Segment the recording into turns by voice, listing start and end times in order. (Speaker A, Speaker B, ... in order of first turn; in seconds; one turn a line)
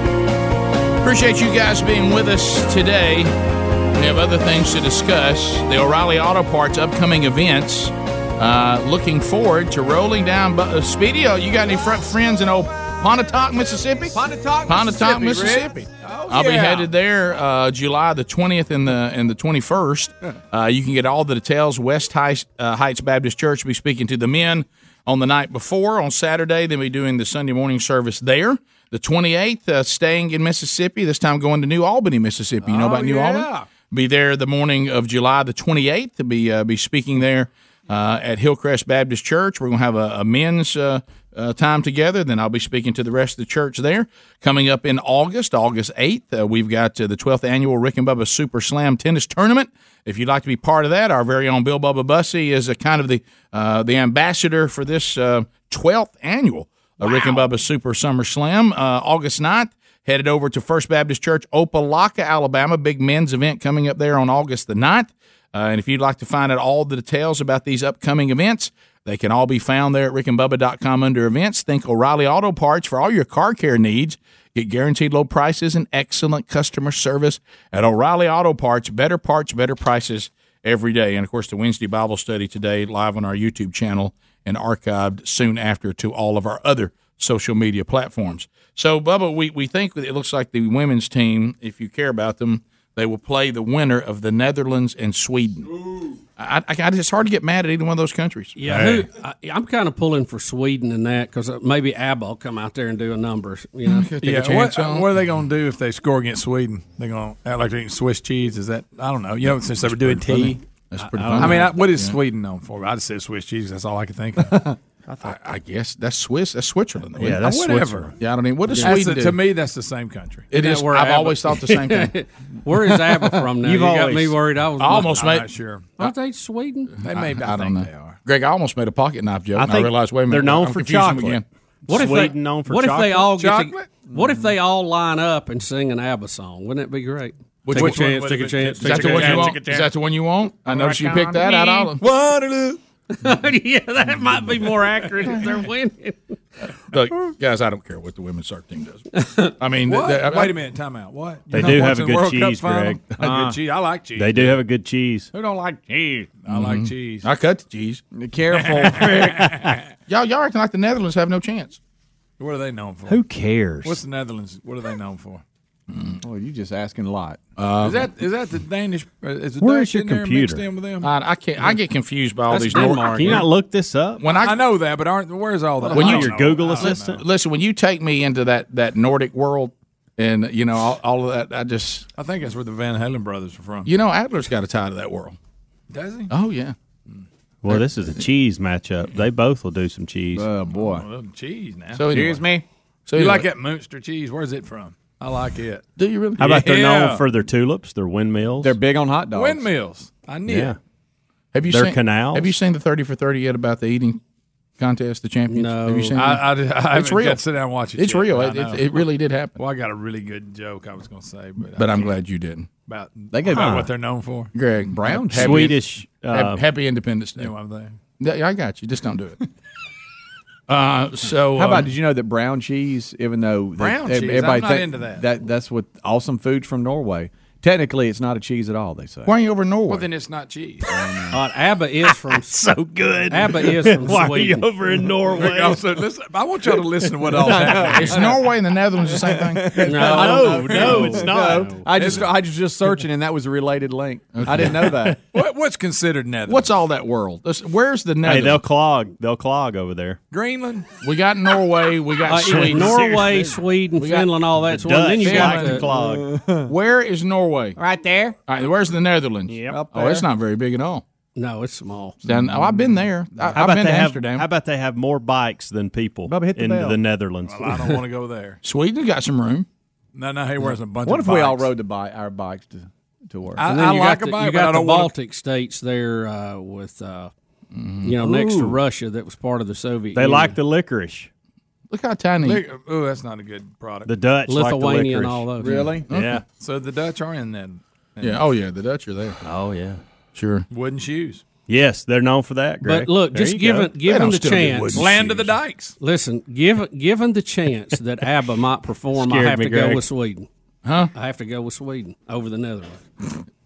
Speaker A: 1.0-3.3
Speaker A: 4.0-95.7
Speaker B: 14.2-16.8
Speaker C: 16.5-16.8
Speaker C: 32.6-33.7
Speaker A: 96.4-98.6
Speaker D: 98.6-104.1
Speaker C: 98.7-99.0
Speaker A: 103.9-105.1
Speaker C: 104.2-110.6
Speaker A: 109.8-112.2
Speaker D: 111.0-111.7
Speaker C: 111.3-114.6
Speaker E: 115.1-115.3
Speaker A: 115.2-117.5
Speaker E: 117.2-118.1
Speaker C: 117.3-118.1
Speaker A: 118.2-119.4
Speaker C: 118.8-120.6
Speaker A: 120.5-122.2
Speaker D: 120.5-125.3
Speaker C: 123.6-124.3
Speaker E: 123.8-124.0
Speaker A: 124.8-125.5
Speaker C: 124.9-126.0
Speaker D: 126.0-127.0
Speaker C: 127.0-128.2
Speaker A: 127.0-131.4
Speaker E: 129.6-133.4
Speaker D: 131.9-139.6
Speaker C: 133.4-133.9
Speaker B: 134.1-134.4
Speaker A: 137.7-138.1
Speaker C: 137.7-139.9
Speaker A: 138.8-142.0
Speaker C: 140.7-142.8
Speaker D: 143.1-146.2
Speaker A: 146.9-149.1
Speaker D: 149.2-149.5
Speaker A: 149.6-150.6
Speaker C: 149.9-154.6
Speaker E: 151.5-153.6
Speaker E: 154.1-155.3
Speaker C: 155.4-157.3
Speaker A: 156.5-158.0
Speaker B: 158.1-159.5
Speaker C: 158.5-159.8
Speaker E: 159.2-159.7
Speaker A: 160.1-161.8
Speaker C: 162.4-163.2
Speaker E: 163.1-164.0
Speaker C: 163.8-165.4
Speaker A: 165.9-166.2
Speaker B: 166.2-167.4
Speaker A: 167.6-168.1
Speaker C: 167.8-171.1
Speaker E: 169.6-170.7
Speaker A: 171.0-173.5
Speaker D: 172.5-173.5
Speaker E: 172.9-174.3
Speaker A: 174.2-174.6
Speaker C: 174.3-177.2
Speaker E: 175.8-177.2
Speaker A: 175.9-182.1
Speaker C: 182.2-183.9
Speaker A: 183.8-185.4
Speaker C: 185.9-186.3
Speaker A: 186.3-186.8
Speaker E: 187.6-190.5
Speaker B: 190.3-191.1
Speaker C: 190.8-192.1
Speaker A: 191.9-192.4
Speaker B: 192.1-192.6
Speaker A: 193.1-193.5
Speaker C: 193.1-195.9
Speaker A: 196.0-196.7
Speaker E: 196.4-198.8
Speaker C: 196.4-197.2
Speaker B: 198.6-199.7
Speaker C: 199.3-200.8
Speaker E: 200.5-200.8
Speaker A: 201.5-204.2
Speaker E: 201.7-202.6
Speaker A: 204.8-207.4
Speaker D: 205.5-206.2
Speaker C: 206.2-209.0
Speaker A: 208.0-209.6
Speaker C: 209.6-212.1
Speaker A: 211.8-212.7
Speaker C: 212.9-214.5
Speaker B: 213.3-213.9
Speaker A: 214.5-217.5
Speaker B: 214.8-215.8
Speaker E: 215.3-216.6
Speaker C: 217.4-218.0
Speaker A: 218.2-219.4
Speaker A: 220.7-221.9
Speaker B: 221.6-229.3
Speaker A: 223.8-224.7
Speaker C: 224.1-225.2
Speaker A: 229.2-230.1
Speaker C: 229.9-230.8
Speaker B: 230.9-231.3
Speaker D: 231.3-232.6
Speaker E: 232.1-236.1
Speaker D: 233.3-234.7
Speaker C: 235.3-238.2
Speaker E: 236.7-237.9
Speaker B: 237.4-238.2
Speaker A: 237.9-239.8
Speaker B: 239.1-245.2
Speaker D: 239.8-241.8
Speaker E: 240.0-242.2
Speaker A: 244.3-244.8
Speaker C: 245.2-246.7
Speaker A: 246.5-248.6
Speaker E: 248.2-250.2
Speaker C: 250.3-250.9
Speaker A: 251.0-253.0
Speaker D: 252.3-255.9
Speaker E: 252.4-253.6
Speaker A: 254.0-254.3
Speaker E: 254.6-256.3
Speaker A: 255.2-255.8
Speaker B: 255.8-256.7
Speaker A: 256.7-257.8
Speaker E: 257.9-258.3
Speaker A: 258.5-261.0
Speaker E: 259.5-259.9
Speaker B: 259.7-260.2
Speaker D: 261.4-262.2
Speaker A: 262.2-264.5
Speaker E: 263.5-268.0
Speaker B: 266.3-267.0
Speaker C: 267.5-268.6
Speaker A: 268.6-269.7
Speaker C: 270.1-271.7
Speaker B: 271.0-273.7
Speaker C: 273.6-275.1
Speaker D: 273.6-277.3
Speaker A: 277.7-278.1
Speaker D: 278.0-280.6
Speaker B: 278.2-278.8
Speaker E: 280.1-281.3
Speaker A: 281.9-282.6
Speaker C: 282.4-284.1
Speaker E: 284.1-285.5
Speaker D: 284.5-285.9
Speaker B: 285.6-286.1
Speaker E: 286.1-286.4
Speaker A: 286.1-286.4
Speaker C: 286.5-288.4
Speaker A: 288.2-289.4
Speaker E: 289.4-290.0
Speaker A: 290.4-290.7
Speaker C: 290.7-291.4
Speaker E: 291.7-293.9
Speaker D: 292.8-295.2
Speaker A: 294.0-295.5
Speaker C: 294.9-296.0
Speaker D: 296.0-300.5
Speaker E: 299.2-300.0
Speaker A: 300.9-301.1
Speaker D: 301.1-303.0